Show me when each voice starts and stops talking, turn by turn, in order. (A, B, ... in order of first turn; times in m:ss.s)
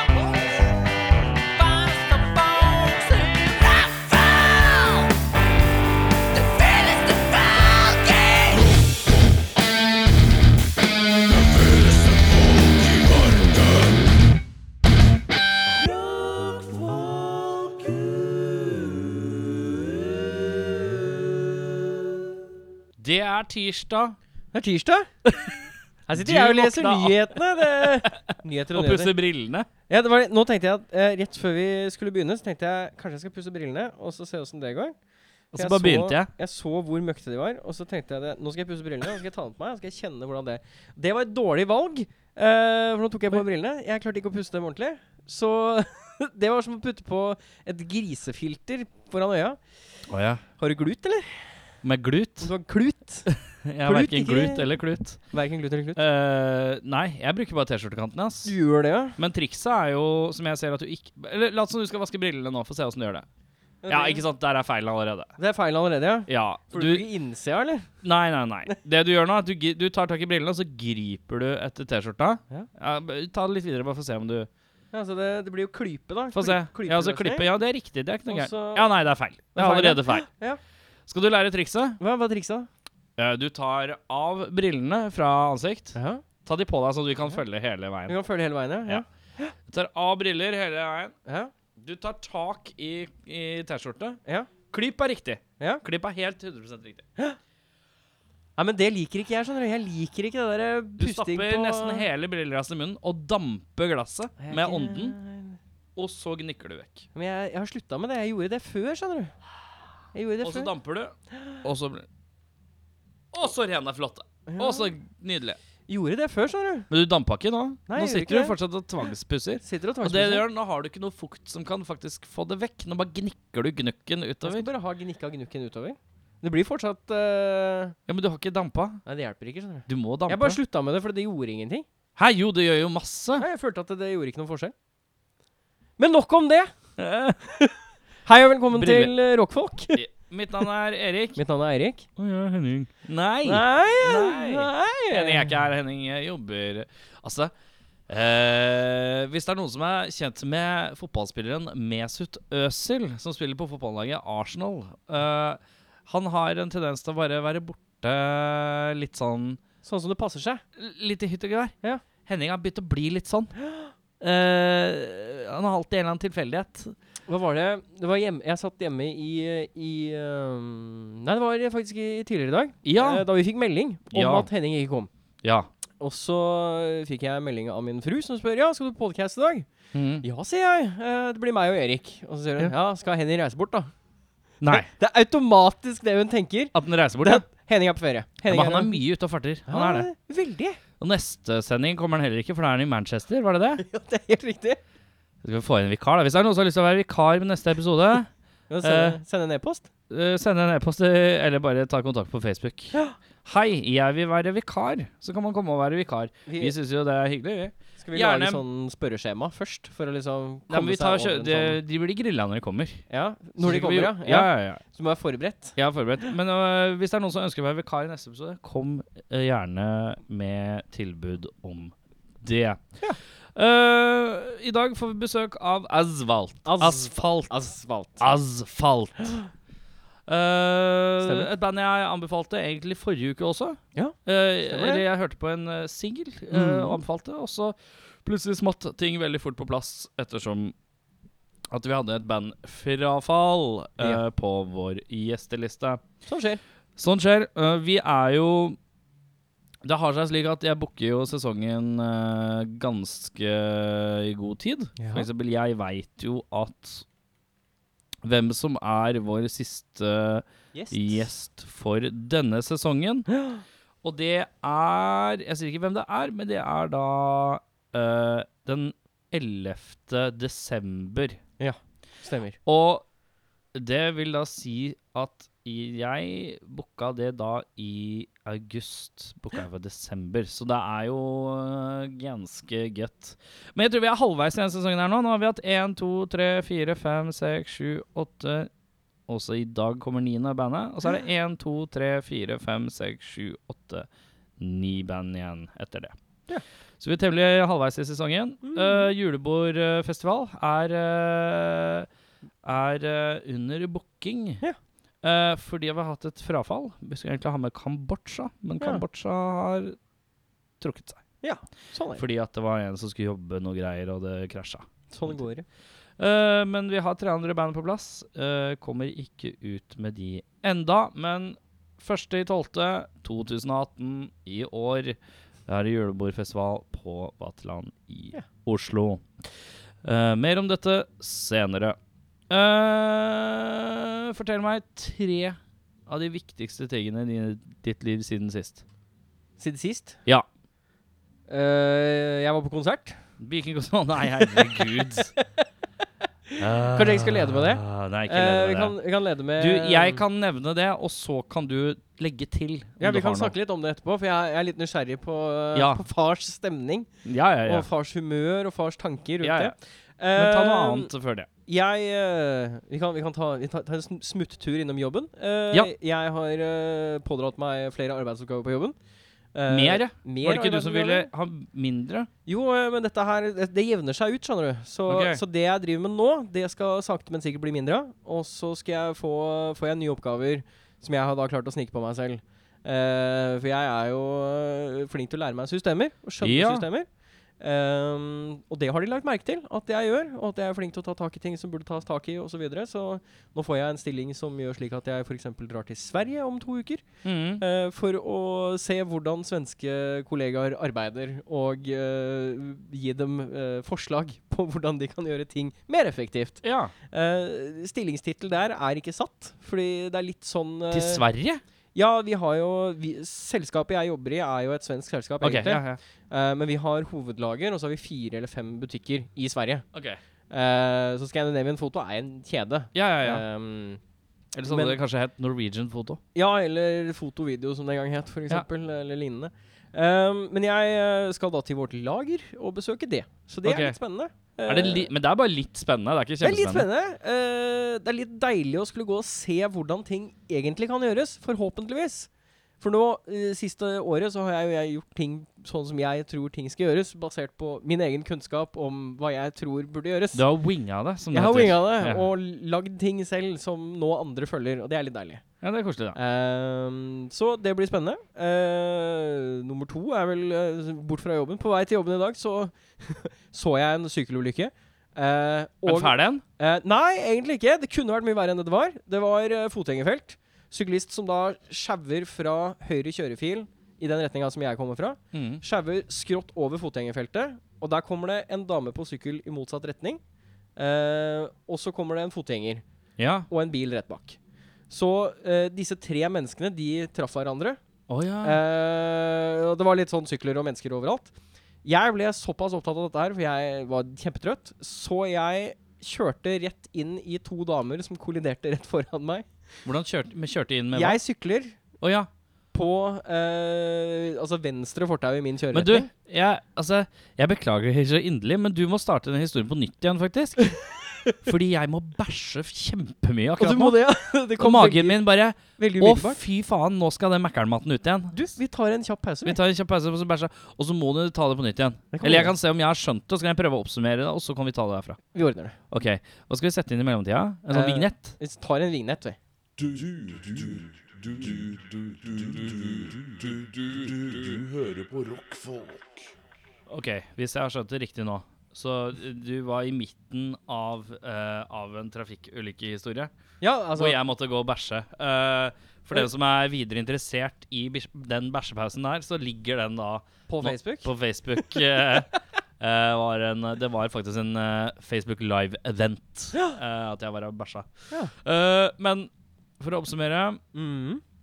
0:03.2-0:03.6 A
0:07.6-0:08.0 A
0:23.0-0:24.2 A
0:24.5-0:25.1 B
0:25.3-0:25.5 A
0:26.1-0:29.1 B
0:26.1-0:28.2 A
0:28.7-0:29.7 A
0:29.9-0:34.9 B
0:35.5-0:36.3 A
0:35.6-0:49.6 B
0:50.1-0:50.4 A
0:50.6-0:51.5 B
0:51.8-0:52.5 A
0:52.4-0:53.3 B
0:53.3-0:55.2 A
0:53.8-0:54.7 B
0:55.3-0:56.0 B
0:56.0-0:58.5 A
0:58.4-0:59.2 B
0:59.2-1:03.2 A
1:03.8-1:04.2 B
1:03.9-1:05.3 A
1:05.4-1:07.9 B
1:06.3-1:07.0 A
1:08.0-1:14.5 A
1:14.9-1:17.5 B
1:16.3-1:20.3 A
1:18.3-1:18.9 B
1:19.5-1:20.6 B
1:21.1-1:22.0 A
1:22.0-1:22.7 B
1:23.2-1:28.2 A
1:25.9-1:26.2 B
1:28.1-1:29.5 B
1:29.7-1:31.1 A
1:31.2-1:31.5 B
1:31.8-1:37.0 A
1:38.6-1:42.0 B
1:41.0-1:45.2 A
1:44.4-1:45.6 B
1:46.0-1:47.1 A
1:47.1-1:49.3 B
1:50.1-1:50.7 B
1:50.4-1:52.0 A
1:53.3-1:55.6 A
1:54.4-1:54.9 B
1:55.9-1:56.9 B
1:56.9-2:04.7 A
1:57.9-1:58.6 B
1:59.6-2:00.4 B
2:04.4-2:08.0 B
2:08.1-2:09.0 A
2:09.0-2:11.8 B
2:09.9-2:10.6 A
2:12.2-2:13.4 A
2:13.4-2:14.7 B
2:16.0-2:16.7 B
2:17.0-2:17.4 A
2:18.2-2:20.0 B
2:18.7-2:19.1 A
2:19.9-2:21.4 A
2:21.4-2:22.1 B
2:22.2-2:27.5 A
2:23.4-2:25.6 B
2:28.1-2:39.6 A
2:39.8-2:40.6 B
2:40.8-2:41.7 A
2:42.2-2:43.5 A
2:43.6-2:43.9 B
2:44.2-2:46.9 A
2:47.3-2:55.1 B
2:52.8-2:53.2 A
2:54.1-2:54.5 A
2:55.4-2:55.7 A
2:56.0-2:59.7 B
2:59.9-3:00.2 A
3:00.2-3:03.9 B
3:04.6-3:04.9 A
3:04.6-3:09.0 B
3:06.7-3:07.4 A
3:08.4-3:10.1 A
3:09.7-3:10.8 B
3:11.0-3:13.8 A
3:13.8-3:14.8 B
3:15.4-3:18.3 A
3:18.7-3:19.9 B
3:18.8-3:19.2 A
3:20.1-3:28.6 A
3:26.4-3:26.7 B
3:28.0-3:31.8 B
3:30.7-3:33.0 A
3:33.1-3:35.8 B
3:33.6-3:34.8 A
3:35.8-3:42.8 A
3:43.5-3:47.5 A
3:46.6-3:48.2 B
3:48.2-3:49.3 A
3:50.3-4:00.7 A
3:51.2-3:51.5 B
3:53.9-3:55.0 B
3:56.5-3:57.0 B
4:01.7-4:06.0 A
4:06.2-4:06.6 B
4:07.0-4:08.8 A
4:09.8-4:17.0 A
4:15.0-4:15.3 B
4:18.2-4:23.3 A
4:20.7-4:21.2 B
4:23.3-4:23.6 B
4:24.0-4:31.4 A
4:31.6-4:32.6 B
4:32.6-4:33.0 A
4:33.7-4:48.7 A
4:49.3-4:54.1 A
4:54.6-4:56.1 A
4:57.0-5:02.1 A
4:58.6-4:59.1 B
5:02.6-5:04.6 A
5:05.2-5:10.0 A
5:10.8-5:11.2 A
5:11.4-5:12.2 B
5:12.2-5:15.4 A
5:15.1-5:15.6 B
5:16.2-5:29.2 A
5:30.0-5:32.0 A
5:32.5-5:38.8 A
5:39.6-5:40.2 B
5:41.5-5:43.2 B
5:43.4-5:45.3 A
5:44.4-5:44.8 B
5:46.5-5:50.2 B
5:46.6-5:49.0 A
5:49.6-5:53.5 A
5:53.0-5:57.1 B
5:55.7-5:56.0 A
5:57.2-5:57.9 A
5:57.6-6:01.1 B
5:59.4-5:59.7 A
6:00.3-6:01.5 A
6:01.6-6:08.9 B
6:09.5-6:11.3 B
6:09.7-6:12.3 A
6:12.4-6:27.1 B
6:15.1-6:15.4 A
6:26.4-6:26.8 A
6:27.6-6:37.0 B
6:37.2-6:37.6 A
6:37.6-6:51.2 B
6:46.6-6:46.9 A
6:50.9-6:51.6 A
6:51.9-6:59.8 B
6:55.4-6:56.0 A
6:59.9-7:00.2 A
7:00.5-7:04.0 B
7:02.9-7:03.4 A
7:04.5-7:06.2 A
7:04.6-7:05.0 B
7:06.3-7:15.1 B
7:13.6-7:14.0 A
7:14.6-7:16.9 A
7:16.4-7:22.3 B
7:22.8-7:30.4 B
7:30.3-7:32.3 A
7:31.3-7:35.4 B
7:35.6-7:36.2 A
7:36.1-8:00.2 B
7:45.8-7:46.4 A
7:55.3-7:55.6 A
8:00.8-8:02.8 B
8:03.2-8:03.5 A
8:03.5-8:04.4 B
8:04.9-8:07.8 B
8:08.1-8:08.6 A
8:08.4-8:11.3 B
8:11.8-8:19.5 B
8:19.8-8:21.2 A
8:20.9-8:21.8 B
8:22.0-8:22.3 A
8:22.7-8:26.1 B
8:25.7-8:30.7 A
8:31.4-8:34.0 A
8:33.6-8:36.4 B
8:34.6-8:38.3 A
8:38.3-8:39.6 B
8:39.4-8:45.2 A
8:42.1-8:42.5 B
8:45.3-8:45.8 B
8:45.9-8:48.4 A
8:47.7-8:49.4 B
8:49.8-8:56.2 C
8:56.9-9:03.3 A
9:03.6-9:04.2 B
9:04.0-9:12.3 A
9:10.5-9:11.1 B
9:12.8-9:20.6 A
9:20.7-9:21.2 B